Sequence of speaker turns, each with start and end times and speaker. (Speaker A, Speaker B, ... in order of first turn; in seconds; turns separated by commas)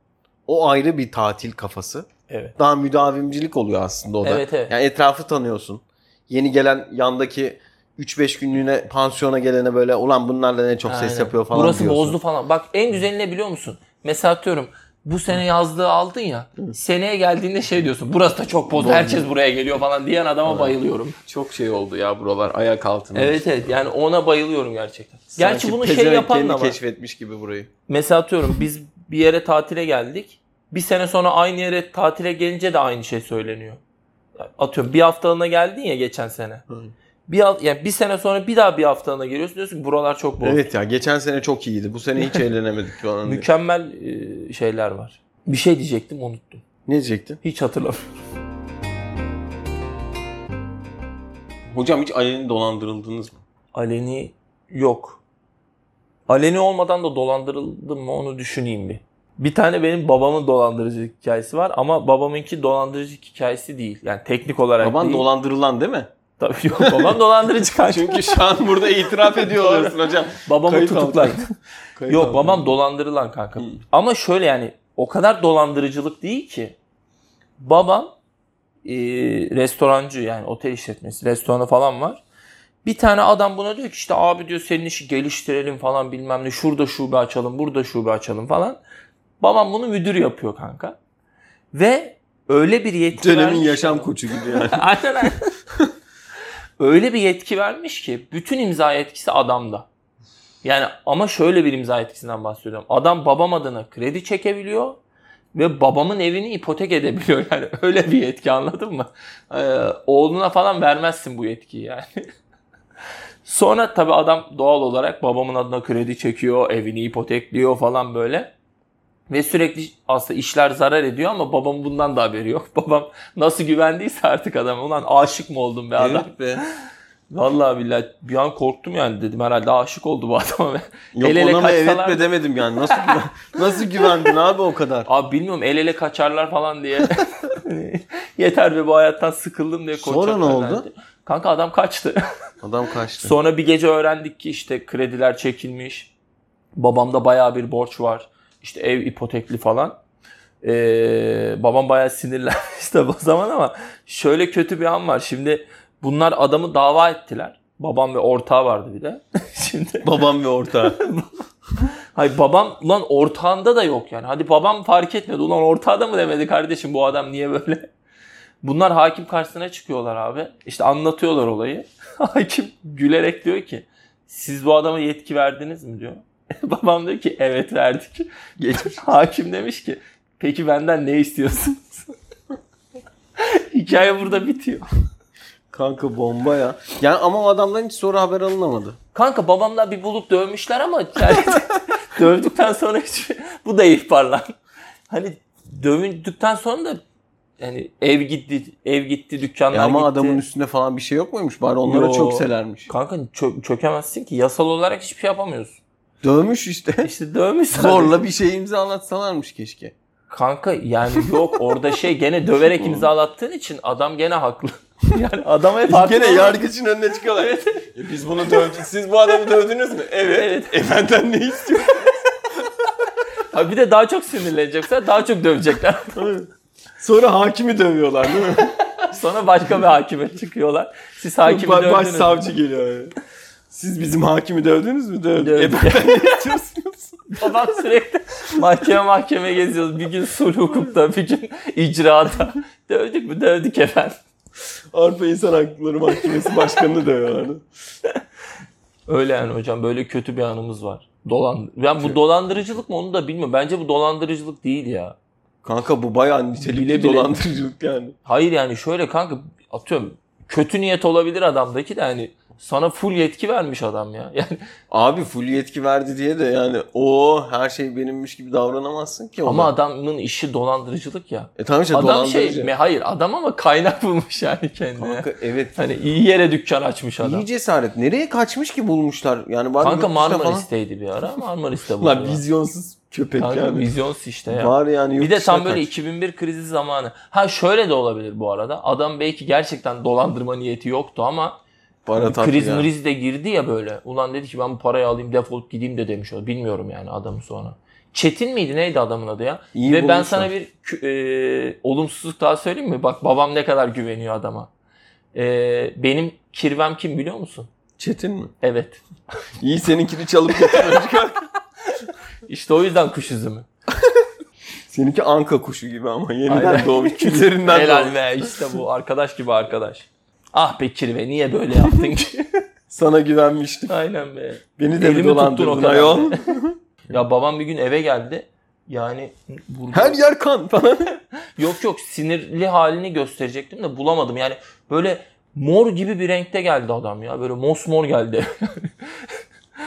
Speaker A: 0.5-2.1, Speaker B: 2.3-2.5, Speaker A: 2.6-12.2, Speaker B: 4.2-4.7, Speaker B: 10.8-21.2, Speaker A: 18.7-19.3, Speaker A: 20.4-23.5, Speaker B: 23.1-26.8, Speaker A: 25.3-27.7, Speaker B: 27.9-33.8, Speaker B: 34.4-36.6, Speaker B: 37.3-40.6, Speaker A: 40.4-43.5, Speaker B: 43.2-46.6, Speaker A: 46.9-47.4, Speaker B: 47.4-48.1, Speaker A: 51.7-53.4, Speaker B: 53.7-55.2, Speaker B: 56.3-65.2, Speaker A: 64.8-66.1, Speaker B: 66.4-68.4, Speaker A: 66.8-67.1, Speaker A: 67.8-71.4, Speaker B: 69.1-71.5, Speaker A: 72.0-72.7, Speaker B: 72.0-76.8, Speaker B: 77.6-78.1, Speaker B: 78.8-82.2, Speaker B: 82.8-88.8, Speaker B: 89.4-91.0, Speaker B: 91.7-95.5, Speaker A: 93.2-94.8, Speaker B: 96.8-99.9, Speaker B: 100.6-105.0, Speaker B: 105.5-112.2, Speaker B: 113.4-118.5, Speaker B: 119.3-126.3, Speaker A: 126.0-126.6, Speaker B: 127.3-132.3, Speaker A: 131.1-135.1, Speaker B: 132.9-133.2, Speaker B: 135.1-142.2, Speaker A: 139.9-140.9, Speaker A: 142.6-143.3, Speaker B: 143.2-146.1, Speaker B: 146.7-150.0, Speaker B: 150.6-160.1, Speaker A: 160.0-161.0, Speaker B: 160.8-161.3, Speaker B: 162.1-167.9, Speaker B: 168.6-178.3, Speaker A: 178.6-179.1, Speaker B: 179.0-182.1, Speaker B: 183.4-184.8, Speaker A: 185.7-189.0, Speaker B: 189.1-194.5, Speaker B: 195.1-197.0, Speaker B: 197.6-200.4, Speaker A: 199.7-202.9, Speaker B: 201.8-205.8, Speaker A: 206.2-207.1, Speaker B: 207.0-208.2, Speaker A: 207.7-209.9, Speaker B: 210.3-216.6, Speaker A: 212.8-213.1, Speaker A: 215.9-222.2, Speaker B: 217.3-217.9, Speaker B: 220.3-220.7, Speaker B: 223.5-226.2, Speaker A: 226.1-226.5, Speaker A: 227.0-228.7, Speaker B: 229.0-232.5, Speaker A: 231.4-233.1, Speaker A: 233.7-237.3, Speaker B: 235.4-236.2, Speaker B: 237.3-244.2, Speaker A: 244.9-247.6, Speaker B: 249.1-255.2, Speaker A: 255.6-258.1, Speaker B: 256.6-257.3, Speaker B: 258.2-264.6, Speaker A: 264.9-269.7, Speaker B: 269.4-275.2, Speaker A: 271.6-272.7, Speaker A: 275.0-275.8, Speaker B: 275.8-277.4, Speaker A: 277.2-280.7, Speaker B: 279.8-282.4, Speaker A: 282.0-283.9, Speaker B: 283.4-291.6, Speaker A: 284.5-285.9, Speaker A: 292.1-292.9, Speaker B: 292.2-304.7, Speaker A: 299.7-300.5, Speaker B: 305.3-307.7, Speaker A: 308.0-308.5, Speaker B: 308.6-309.0, Speaker A: 309.6-311.4, Speaker B: 310.7-311.2, Speaker B: 312.4-313.6, Speaker A: 314.9-318.6, Speaker B: 316.5-322.4, Speaker A: 322.9-323.9, Speaker B: 323.9-326.5, Speaker A: 324.8-326.8, Speaker B: 327.1-330.2, Speaker A: 329.9-331.2, Speaker B: 331.6-338.9